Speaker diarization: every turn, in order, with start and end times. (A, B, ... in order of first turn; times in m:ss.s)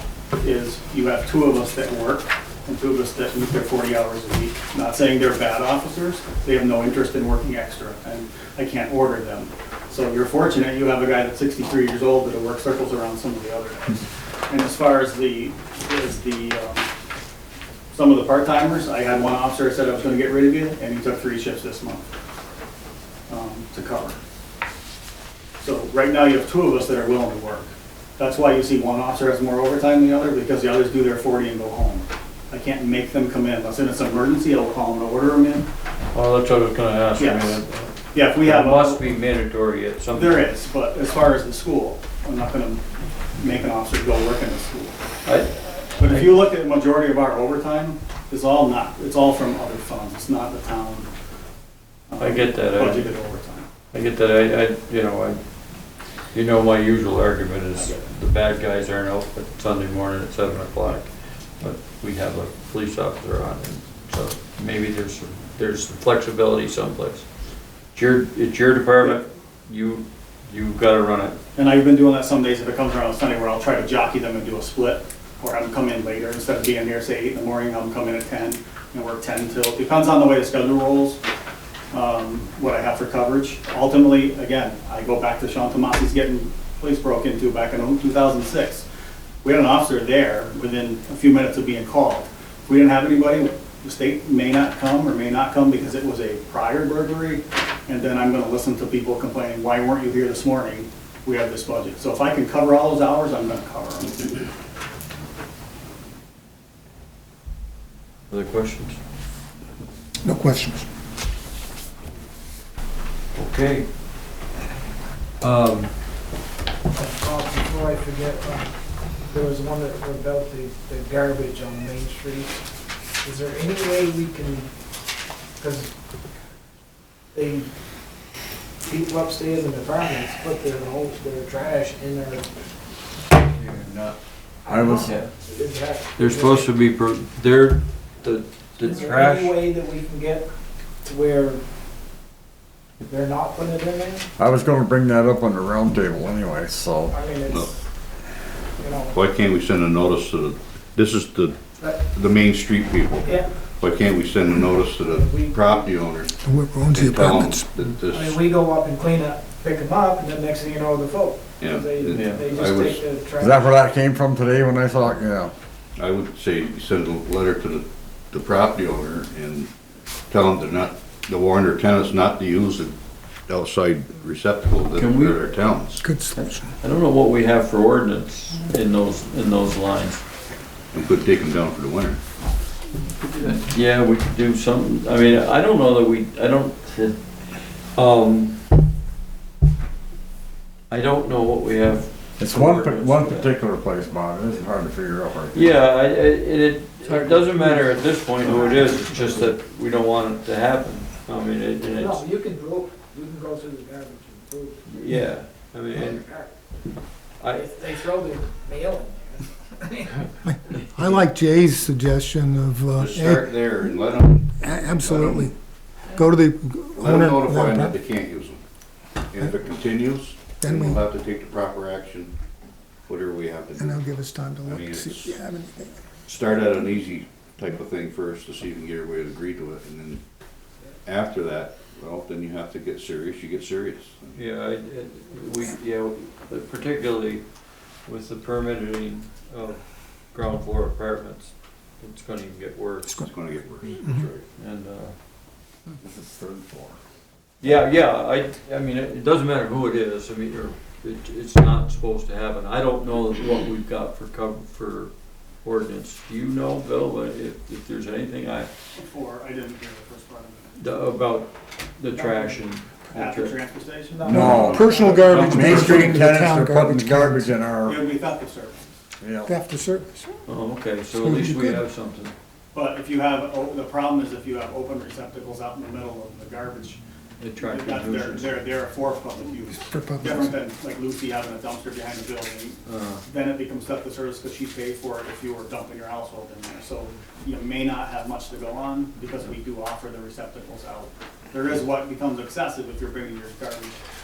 0:00.4-0:16.9 A
0:17.9-0:22.0 A
0:23.3-0:24.2 A
0:25.6-0:35.7 A
0:36.1-0:40.4 B
0:37.2-0:37.6 A
0:38.1-0:39.0 A
0:40.1-0:42.8 A
0:43.4-0:45.0 A
0:45.2-0:46.4 B
0:46.0-0:51.1 A
0:52.1-0:53.7 A
0:52.2-0:53.1 B
0:53.9-0:55.4 B
0:56.3-1:01.1 B
0:57.7-0:58.0 A
1:01.6-1:07.2 B
1:07.9-1:11.4 B
1:11.6-1:21.2 A
1:21.9-1:28.8 A
1:29.4-1:44.4 A
1:48.3-1:49.0 B
1:50.2-1:50.9 C
1:53.3-1:53.9 B
1:55.4-1:55.9 B
1:56.9-1:58.8 D
1:59.3-2:02.6 D
2:03.2-2:04.7 D
2:05.6-2:05.9 D
2:07.3-2:07.7 D
2:08.8-2:12.6 D
2:13.4-2:14.2 B
2:14.6-2:16.7 D
2:14.7-2:15.2 E
2:15.0-2:15.3 B
2:16.2-2:19.6 B
2:18.8-2:20.5 D
2:21.0-2:21.6 D
2:23.0-2:24.3 D
2:24.4-2:27.2 E
2:27.1-2:27.9 D
2:28.8-2:29.2 D
2:29.1-2:31.6 F
2:32.1-2:33.3 F
2:33.2-2:33.5 D
2:33.8-2:36.3 F
2:34.9-2:36.0 D
2:36.4-2:37.7 C
2:36.9-2:38.4 F
2:38.1-2:43.7 D
2:41.6-2:43.0 F
2:42.1-2:42.5 B
2:43.4-2:45.5 E
2:46.0-2:49.7 F
2:50.3-2:52.9 F
2:53.5-2:56.0 F
2:54.9-2:55.6 B
2:56.0-2:56.7 C
2:56.4-3:00.2 B
3:00.9-3:02.2 F
3:03.3-3:07.2 B
3:07.9-3:08.6 B
3:10.9-3:13.5 B
3:12.4-3:15.7 E
3:15.5-3:22.2 B
3:17.1-3:19.5 D
3:21.9-3:25.2 D
3:24.9-3:26.2 B
3:25.9-3:26.5 D
3:27.4-3:27.8 B
3:27.5-3:30.8 D
3:30.5-3:33.9 C
3:30.8-3:31.2 B
3:33.0-3:35.4 F
3:34.6-3:35.6 C
3:36.1-3:37.9 C
3:37.0-3:38.6 F
3:39.3-3:42.3 F
3:40.6-3:41.0 C
3:43.1-3:44.0 F
3:43.8-3:46.0 C
3:44.7-3:45.3 F
3:46.3-3:50.2 F
3:51.0-3:54.4 F
3:54.3-3:57.4 B
3:58.1-3:59.8 B
4:00.3-4:04.0 B
4:03.3-4:04.4 F
4:03.9-4:04.2 A
4:04.6-4:05.2 B
4:06.0-4:07.0 E
4:07.6-4:15.1 B
4:15.6-4:18.7 B
4:18.9-4:20.7 A
4:20.8-4:23.6 B
4:22.1-4:22.6 D
4:23.1-4:25.0 A
4:24.2-4:25.5 D
4:24.3-4:28.0 E
4:24.3-4:27.5 C
4:25.0-4:26.0 B
4:27.8-4:28.9 A
4:29.2-4:29.5 E
4:29.4-4:30.4 C
4:30.4-4:32.3 B
4:31.1-4:31.8 C
4:32.7-4:37.0 A
4:37.4-4:38.6 B
4:37.6-4:54.0 A
4:39.7-4:40.6 C
4:42.9-4:43.2 B